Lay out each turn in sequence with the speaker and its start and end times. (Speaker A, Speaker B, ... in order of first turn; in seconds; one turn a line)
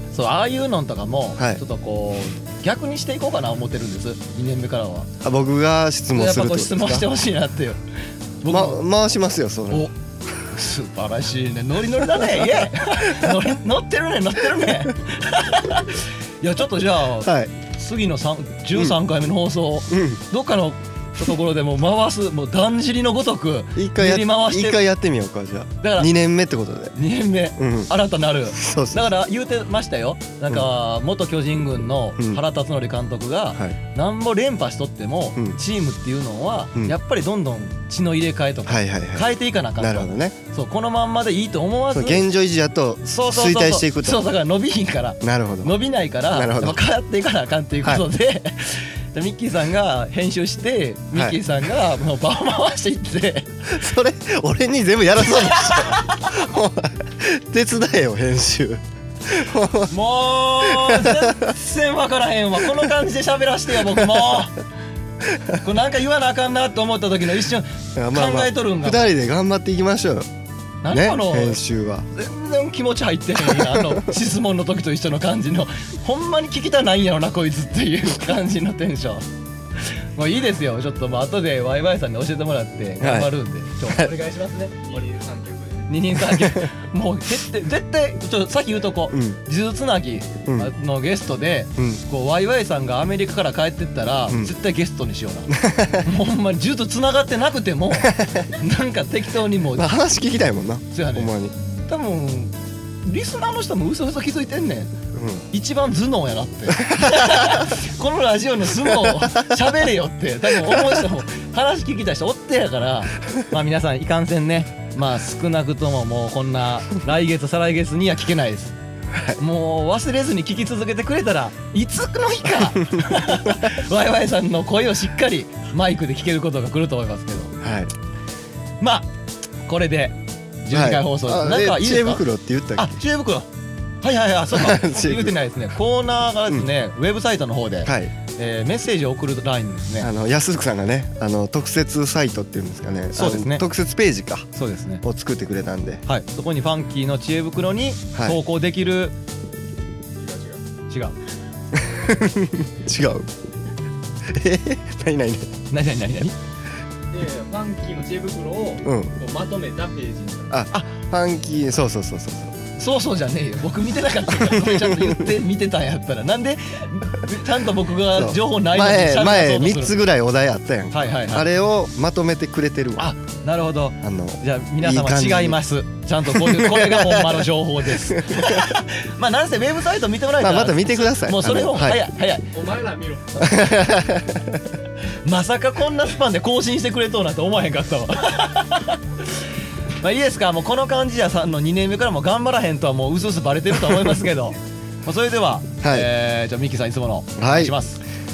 Speaker A: 0.1-5.1
Speaker B: 5.2-7.1
Speaker A: 6.1-7.8
Speaker A: 8.4-8.8
Speaker B: 8.5-9.9
Speaker A: 10.5-24.8
Speaker B: 12.2-13.3
Speaker B: 17.2-17.5
Speaker B: 19.9-20.2
Speaker B: 23.8-27.0
Speaker A: 25.8-26.1
Speaker A: 27.0-42.3
Speaker B: 27.6-27.9
Speaker B: 28.6-29.1
Speaker B: 38.7-40.4
Speaker B: 41.9-44.2
Speaker A: 43.0-53.8
Speaker B: 45.2-45.8
Speaker B: 46.3-46.8
Speaker B: 53.7-59.9
Speaker A: 55.3-56.1
Speaker A: 59.9-64.6
Speaker B: 60.6-61.5
Speaker A: 65.6-69.1
Speaker B: 68.0-70.3
Speaker A: 70.8-71.6
Speaker B: 70.9-72.1
Speaker A: 72.1-79.3
Speaker B: 73.4-74.1
Speaker A: 80.2-84.8
Speaker B: 83.0-83.3
Speaker C: 84.8-85.9
Speaker A: 85.9-99.9
Speaker B: 86.3-86.7
Speaker B: 89.1-89.4
Speaker B: 90.5-90.7
Speaker B: 91.8-92.0
Speaker B: 94.3-94.5
Speaker B: 95.5-96.1
Speaker B: 98.0-98.5
Speaker B: 99.8-101.5
Speaker A: 100.9-101.3
Speaker A: 101.9-102.5
Speaker A: 103.0-104.9
Speaker B: 105.1-105.5
Speaker A: 105.5-118.8
Speaker B: 106.8-107.7
Speaker B: 108.9-109.2
Speaker B: 110.7-111.0
Speaker A: 119.4-127.5
Speaker B: 127.6-127.9
Speaker A: 128.8-129.1
Speaker A: 129.7-132.2
Speaker B: 130.7-132.9
Speaker A: 132.8-133.5
Speaker A: 134.0-140.1
Speaker B: 134.5-135.4
Speaker B: 137.8-138.1
Speaker B: 140.0-144.5
Speaker A: 143.1-143.6
Speaker A: 144.6-145.0
Speaker B: 145.0-146.0
Speaker A: 146.1-149.1
Speaker C: 150.2-150.6
Speaker A: 150.9-151.2
Speaker B: 151.8-153.3
Speaker B: 154.3-155.5
Speaker A: 155.7-156.4
Speaker C: 157.1-160.6
Speaker B: 158.8-159.2
Speaker B: 160.5-162.7
Speaker A: 162.8-169.9
Speaker B: 164.4-165.2
Speaker B: 168.1-173.1
Speaker A: 170.9-171.5
Speaker A: 173.0-182.6
Speaker B: 174.0-175.6
Speaker B: 176.3-177.5
Speaker B: 178.1-178.8
Speaker B: 180.4-182.0
Speaker C: 182.5-183.5
Speaker B: 183.4-184.6
Speaker A: 185.2-189.2
Speaker A: 190.0-198.0
Speaker B: 195.8-196.1
Speaker B: 197.4-197.8